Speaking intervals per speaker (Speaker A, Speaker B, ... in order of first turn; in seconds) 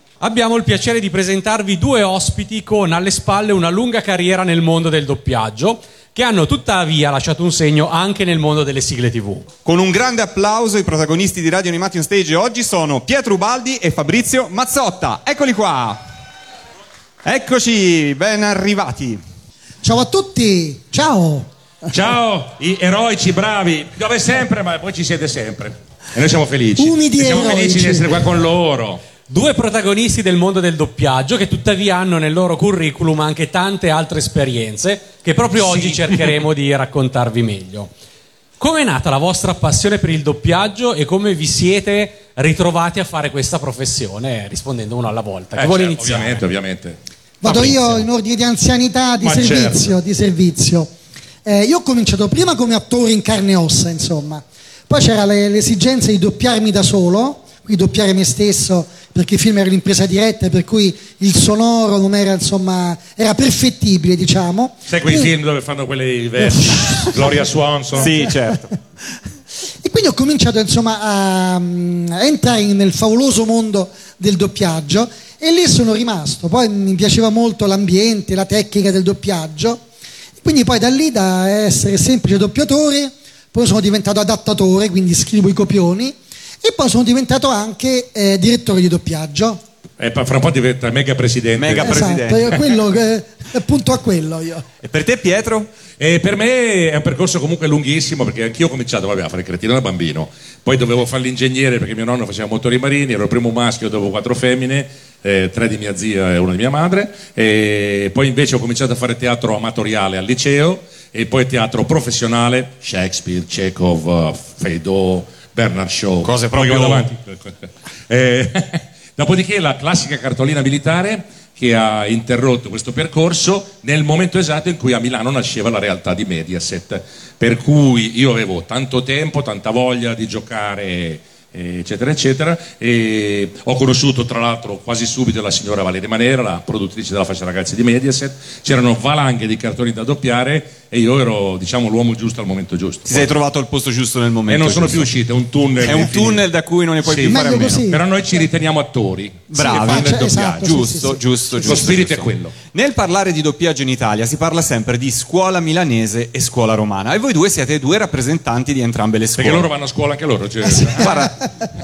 Speaker A: 0.2-9.4, 29.3-37.9, 38.6-46.4, 47.5-48.0
Speaker B: 9.6-16.0, 17.2-19.2, 67.9-68.7, 91.6-92.6, 94.8-95.7, 116.2-117.1, 143.1-145.1, 145.8-147.8, 149.5-159.7, 161.0-161.4
Speaker C: 19.8-21.9, 26.8-28.2, 47.4-50.9, 51.4-65.3, 66.4-67.3, 69.8-79.8, 80.4-89.6, 91.7-94.7, 147.2-148.4, 149.6-151.9, 160.6-161.4
Speaker D: 21.9-29.0, 35.6-36.3, 45.5-47.0, 49.2-49.8, 64.9-68.3, 90.0-92.1, 96.0-143.3, 144.5-146.4, 147.0-150.7, 151.6-152.5, 159.4-161.3